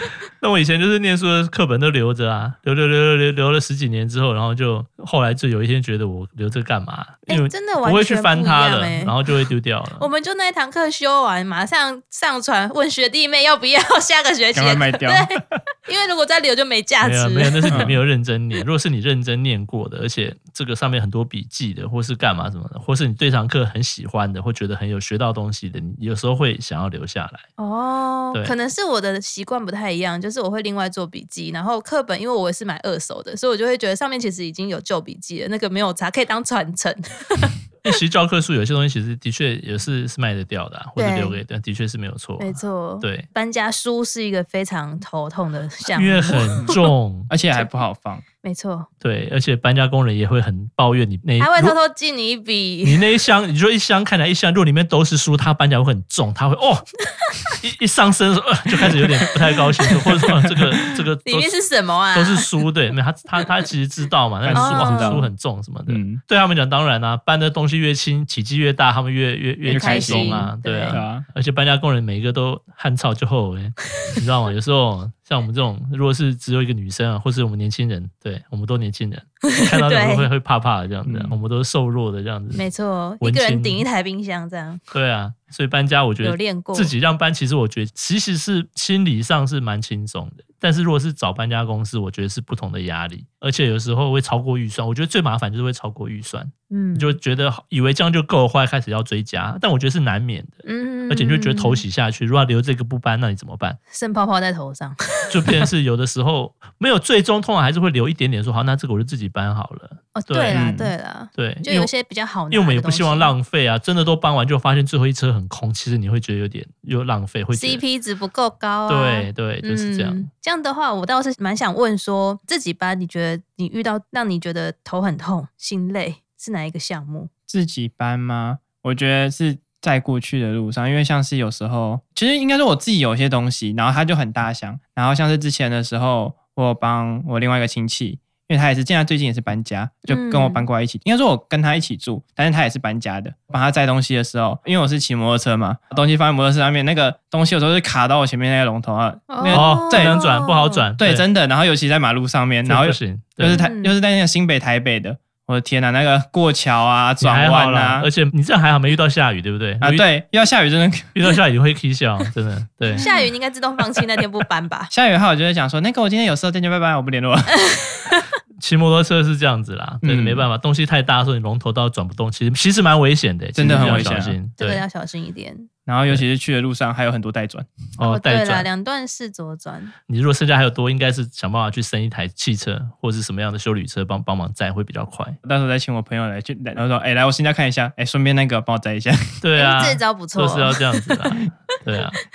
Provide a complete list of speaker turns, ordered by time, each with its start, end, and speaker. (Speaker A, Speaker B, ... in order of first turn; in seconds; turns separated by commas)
Speaker A: 0.4-10.1, Speaker B: 7.3-9.2, Speaker B: 10.0-17.9, Speaker C: 14.5-15.3, Speaker A: 17.0-27.4, Speaker B: 27.6-37.5, Speaker A: 37.8-43.3, Speaker B: 41.0-41.4, Speaker B: 42.4-46.8, Speaker A: 45.9-47.3, Speaker C: 46.6-48.2, Speaker B: 48.4-48.9, Speaker A: 49.0-51.8, Speaker B: 51.4-53.0, Speaker A: 52.8-56.8, Speaker A: 57.6-61.5, Speaker C: 60.4-61.0, Speaker B: 61.2-62.5, Speaker A: 62.1-82.6, Speaker C: 64.4-65.3, Speaker B: 64.5-65.3, Speaker C: 65.9-66.2, Speaker C: 69.7-71.2, Speaker B: 69.7-71.0, Speaker B: 79.5-80.3, Speaker C: 81.0-81.4, Speaker B: 82.5-84.8, Speaker A: 83.2-83.8, Speaker A: 84.9-103.8, Speaker B: 86.2-86.9, Speaker B: 96.7-97.2, Speaker B: 100.6-101.8, Speaker B: 103.9-105.6, Speaker A: 105.3-110.6, Speaker B: 110.1-113.3, Speaker C: 110.5-110.9, Speaker A: 111.3-111.9, Speaker A: 112.5-117.8, Speaker B: 117.5-127.3, Speaker A: 118.9-120.2, Speaker C: 127.5-150.2, Speaker B: 140.1-140.7, Speaker B: 149.3-150.9, Speaker A: 149.4-151.2, Speaker C: 151.0-158.1, Speaker A: 152.6-153.6, Speaker B: 153.5-153.9, Speaker A: 157.2-160.1, Speaker C: 159.8-161.1, Speaker A: 161.1-163.1, Speaker B: 163.0-164.9, Speaker C: 164.9-167.6, Speaker B: 167.7-168.2, Speaker A: 168.6-174.8, Speaker C: 170.0-170.4, Speaker C: 173.5-174.4, Speaker B: 174.6-175.7, Speaker C: 175.9-177.7, Speaker A: 178.0-178.7, Speaker B: 178.0-179.9, Speaker A: 180.1-185.4, Speaker C: 185.4-189.3, Speaker A: 189.4-192.2, Speaker B: 189.6-191.2